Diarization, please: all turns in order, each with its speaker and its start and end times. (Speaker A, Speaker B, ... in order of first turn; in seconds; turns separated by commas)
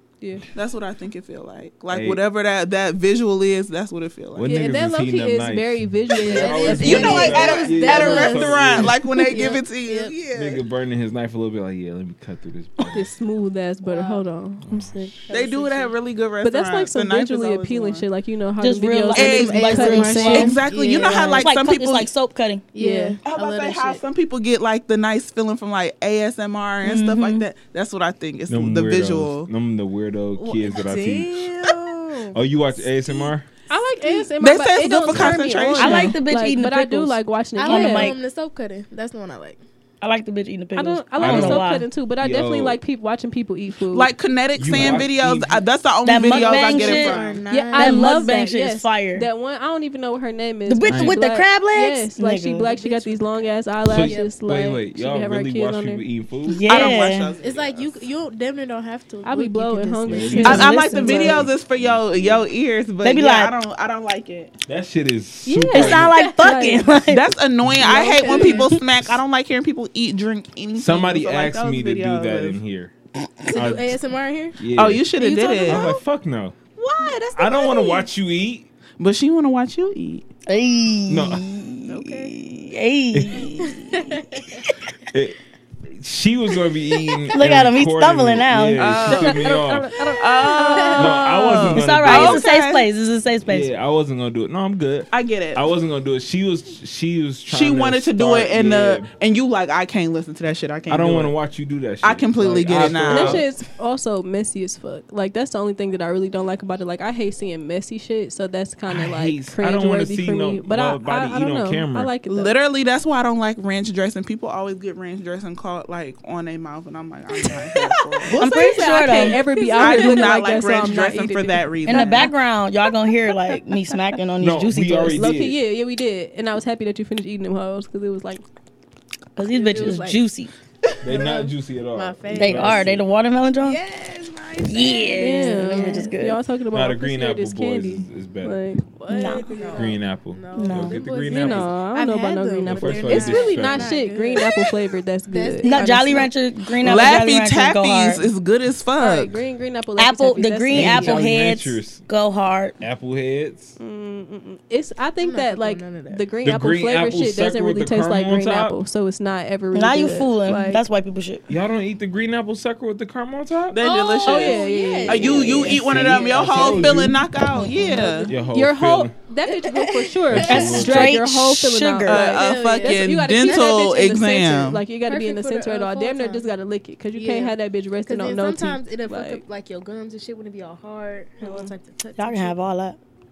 Speaker A: 0.2-0.5, Speaker B: 0.5-4.6, Speaker C: 1.9-2.2, Speaker C: 4.3-9.0, Speaker A: 4.5-8.2, Speaker D: 6.1-10.1, Speaker B: 6.7-10.6, Speaker C: 10.3-13.1, Speaker A: 12.9-14.7, Speaker D: 13.8-14.2, Speaker C: 14.7-15.0, Speaker E: 14.7-15.1, Speaker D: 15.3-15.9, Speaker B: 15.3-18.1, Speaker A: 16.4-20.6, Speaker E: 18.6-20.6, Speaker B: 19.1-19.4, Speaker D: 19.2-21.5, Speaker B: 20.0-22.1, Speaker E: 21.3-22.6, Speaker D: 22.7-24.0, Speaker A: 22.8-23.1, Speaker B: 23.2-29.5, Speaker E: 26.8-27.5, Speaker C: 28.5-31.6, Speaker D: 30.6-32.4, Speaker C: 32.3-33.5, Speaker A: 33.7-38.2, Speaker D: 34.0-34.3, Speaker B: 34.4-36.1, Speaker C: 35.1-35.5, Speaker E: 35.8-38.2, Speaker D: 37.6-39.6, Speaker E: 40.0-41.9, Speaker A: 40.7-44.1, Speaker C: 41.2-42.8, Speaker B: 43.9-47.4, Speaker C: 44.5-45.6, Speaker E: 46.0-47.2, Speaker D: 46.2-48.2, Speaker A: 47.5-56.0, Speaker E: 47.7-49.3, Speaker E: 50.7-52.7, Speaker C: 50.9-51.2, Speaker D: 52.6-54.3, Speaker C: 53.9-56.9, Speaker E: 56.5-57.3, Speaker B: 56.6-58.1, Speaker D: 56.9-61.4, Speaker A: 59.2-61.4, Speaker C: 60.1-60.7, Speaker E: 60.4-61.5, Speaker B: 60.4-64.5, Speaker C: 61.5-62.4, Speaker E: 63.0-63.5, Speaker C: 64.7-66.2, Speaker A: 65.5-66.9, Speaker E: 65.7-67.3, Speaker D: 66.1-66.5, Speaker B: 67.0-72.6, Speaker D: 67.8-68.7, Speaker A: 67.9-68.6, Speaker E: 68.4-68.8, Speaker C: 70.7-72.9, Speaker D: 73.5-74.6, Speaker C: 73.5-74.0, Speaker C: 74.6-75.1, Speaker B: 74.7-75.9, Speaker A: 75.2-76.0, Speaker C: 75.7-76.6, Speaker A: 76.8-78.0, Speaker C: 77.3-78.7, Speaker B: 79.0-80.2, Speaker E: 80.5-84.7, Speaker C: 81.1-81.5, Speaker A: 81.9-82.2, Speaker C: 83.1-83.5, Speaker D: 83.5-84.6, Speaker C: 85.1-85.4, Speaker C: 86.0-90.0, Speaker E: 87.3-89.1, Speaker B: 88.8-89.5, Speaker A: 89.1-91.5, Speaker B: 90.1-92.8, Speaker D: 90.5-91.1, Speaker C: 90.9-92.4, Speaker E: 91.7-93.7, Speaker C: 93.5-99.1, Speaker B: 95.1-95.6, Speaker B: 97.5-101.3, Speaker C: 100.9-103.5, Speaker B: 102.0-103.5, Speaker A: 103.0-112.5, Speaker C: 108.9-112.1, Speaker B: 112.3-122.3, Speaker A: 118.2-122.1, Speaker E: 118.3-120.3, Speaker E: 121.8-125.3, Speaker C: 124.4-125.6, Speaker A: 125.1-128.4, Speaker E: 129.3-130.5, Speaker D: 129.5-130.2, Speaker C: 131.0-133.0, Speaker D: 131.0-132.9, Speaker E: 132.3-133.8, Speaker D: 133.6-136.2, Speaker E: 134.6-136.4, Speaker A: 135.1-139.9, Speaker C: 136.7-138.6, Speaker D: 139.1-146.2, Speaker E: 139.1-139.5, Speaker C: 139.7-141.7, Speaker E: 140.5-141.0, Speaker A: 141.3-146.3, Speaker C: 142.6-143.9, Speaker E: 145.6-148.3, Speaker B: 146.7-149.4, Speaker A: 149.0-151.2, Speaker E: 150.0-152.8, Speaker C: 150.7-152.0, Speaker C: 152.8-153.8, Speaker A: 153.8-160.8, Speaker D: 155.2-156.2, Speaker C: 156.4-158.8, Speaker E: 159.7-161.4, Speaker C: 161.5-163.8, Speaker B: 163.7-168.3, Speaker D: 163.8-167.0, Speaker A: 164.2-165.8, Speaker C: 165.5-167.3, Speaker A: 167.8-179.4, Speaker C: 168.2-169.1, Speaker D: 169.6-170.8, Speaker C: 170.3-171.2, Speaker E: 170.4-172.3, Speaker B: 172.1-174.8, Speaker D: 172.3-174.1, Speaker D: 175.0-176.5, Speaker D: 177.1-182.5, Speaker A: 181.4-181.7, Speaker E: 182.2-183.0